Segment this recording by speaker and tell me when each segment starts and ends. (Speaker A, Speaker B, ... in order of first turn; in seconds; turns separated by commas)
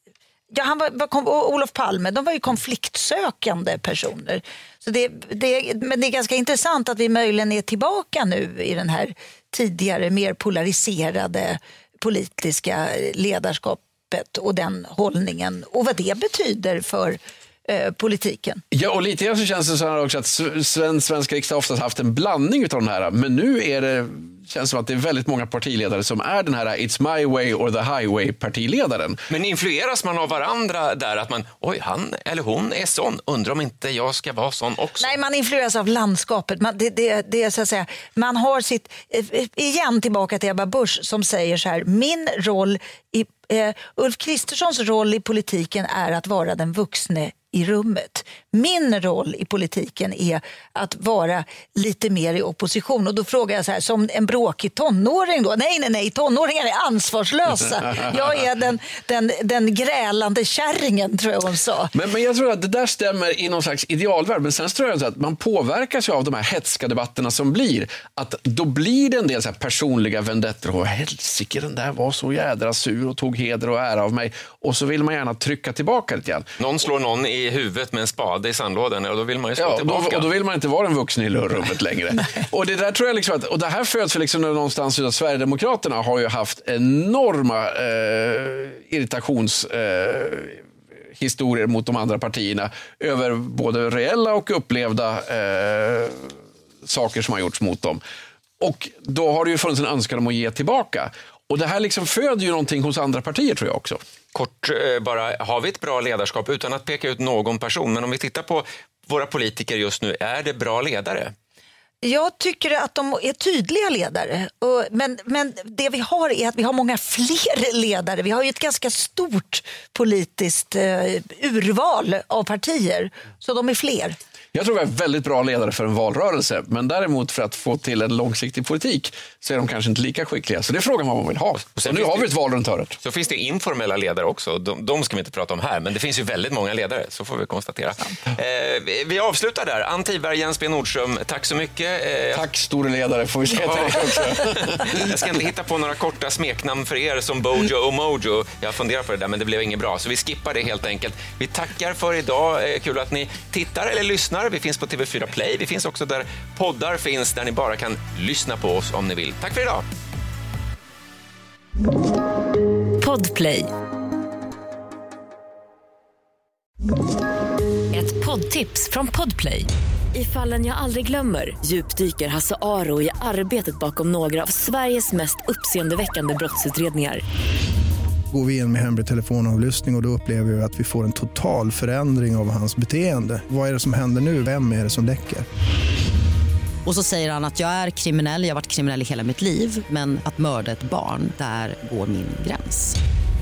Speaker A: 0.5-18.6, Speaker B: 18.7-29.2, Speaker C: 29.3-35.1, Speaker A: 35.0-61.9, Speaker B: 61.9-76.5, Speaker C: 76.6-80.3, Speaker B: 79.6-90.6, Speaker B: 91.2-96.3, Speaker B: 96.8-98.0, Speaker B: 98.6-104.0, Speaker C: 104.3-111.3, Speaker A: 112.0-124.2, Speaker B: 124.5-133.0, Speaker C: 131.8-132.3, Speaker C: 133.0-142.4, Speaker B: 142.3-145.1, Speaker C: 143.5-159.8, Speaker D: 163.0-163.7, Speaker D: 167.9-177.2, Speaker E: 178.3-185.4, Speaker F: 186.8-193.0